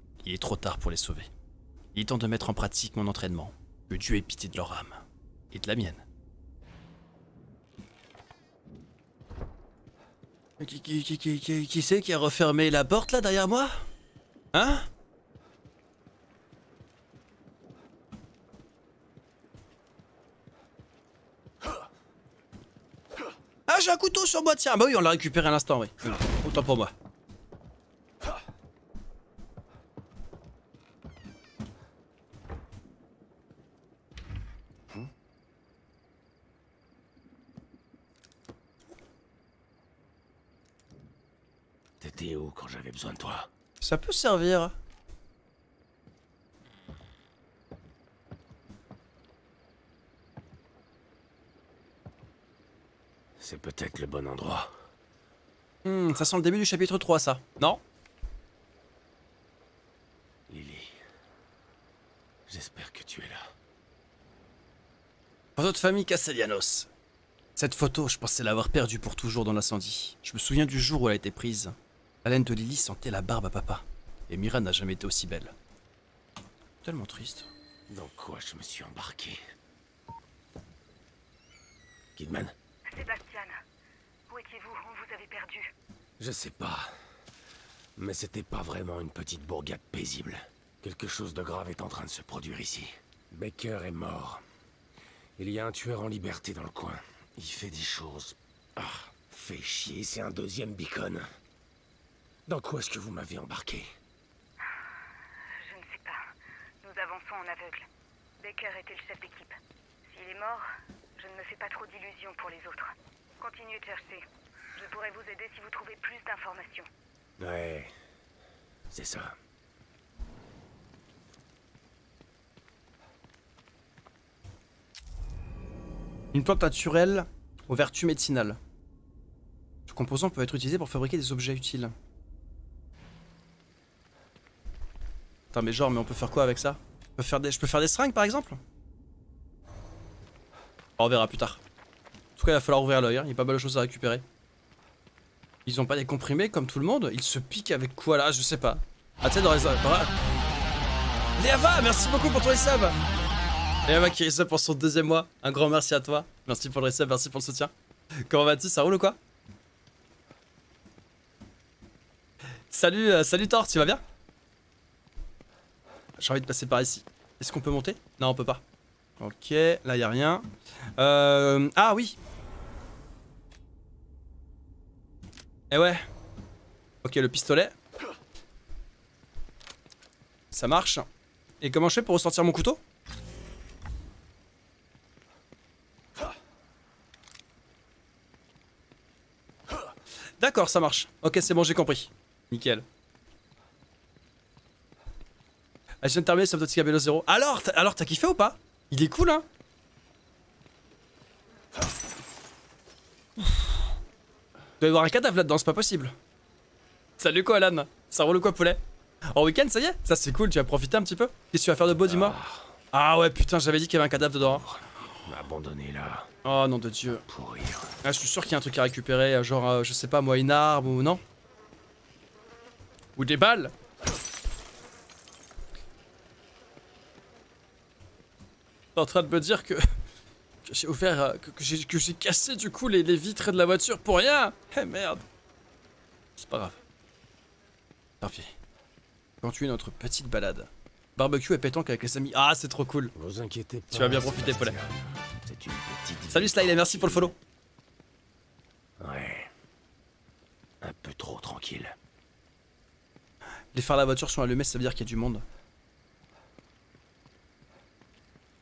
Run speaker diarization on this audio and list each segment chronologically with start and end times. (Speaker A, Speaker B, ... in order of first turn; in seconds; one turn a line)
Speaker A: 0.2-1.3
Speaker A: 1.9-6.0
Speaker A: 10.6-13.8
Speaker A: 14.5-14.9
Speaker A: 23.7-26.9
Speaker B: 42.0-43.5
Speaker A: 43.8-44.8
Speaker B: 53.4-54.7
Speaker A: 55.9-57.8
Speaker B: 60.5-60.9
Speaker B: 62.5-63.5
Speaker A: 65.6-66.9
Speaker A: 67.6-75.5
Speaker A: 76.8-77.5
Speaker B: 77.9-79.4
Speaker B: 82.2-82.5
Speaker C: 82.9-83.6
Speaker C: 84.3-85.7
Speaker B: 86.2-86.9
Speaker B: 88.0-94.4
Speaker B: 95.4-101.3
Speaker B: 102.5-103.9
Speaker C: 105.5-106.3
Speaker C: 106.8-107.9
Speaker C: 108.4-110.7
Speaker C: 111.2-116.9
Speaker B: 117.4-117.9
Speaker B: 118.9-119.3
Speaker A: 126.3-128.6
Speaker A: 129.9-131.9
Speaker A: 135.5-138.6
Speaker A: 141.0-141.6
Speaker A: 142.4-144.2
Speaker A: 145.7-150.1
Speaker A: 151.4-153.0
Speaker A: 153.9-157.7
Speaker A: 158.2-159.2
Speaker A: 162.7-164.0
Speaker A: 166.2-168.6
Speaker A: 169.2-170.4
Speaker A: 171.0-172.2
Speaker A: 175.7-176.0
Speaker A: 177.0-177.8
Speaker A: 180.5-181.1
Speaker A: 181.6-182.8
Speaker A: 190.4-192.8
Speaker A: 196.0-199.4
Speaker A: 204.8-206.2
Speaker A: 207.2-208.8
Speaker A: 209.3-212.4
Speaker B: 212.1-212.8
Speaker A: 212.9-214.6
Speaker B: 214.7-216.3
Speaker A: 216.4-217.2
Speaker B: 217.3-217.9
Speaker A: 218.0-221.2
Speaker A: 223.2-223.7
Speaker A: 229.0-230.0
Speaker A: 230.7-235.2
Speaker A: 236.4-236.8
Speaker A: 238.2-238.5
Speaker A: 239.4-243.1
Speaker B: 243.2-247.3
Speaker A: 243.9-244.8
Speaker A: 246.3-247.3
Speaker B: 249.0-249.5
Speaker B: 250.8-252.0
Speaker A: 253.7-255.4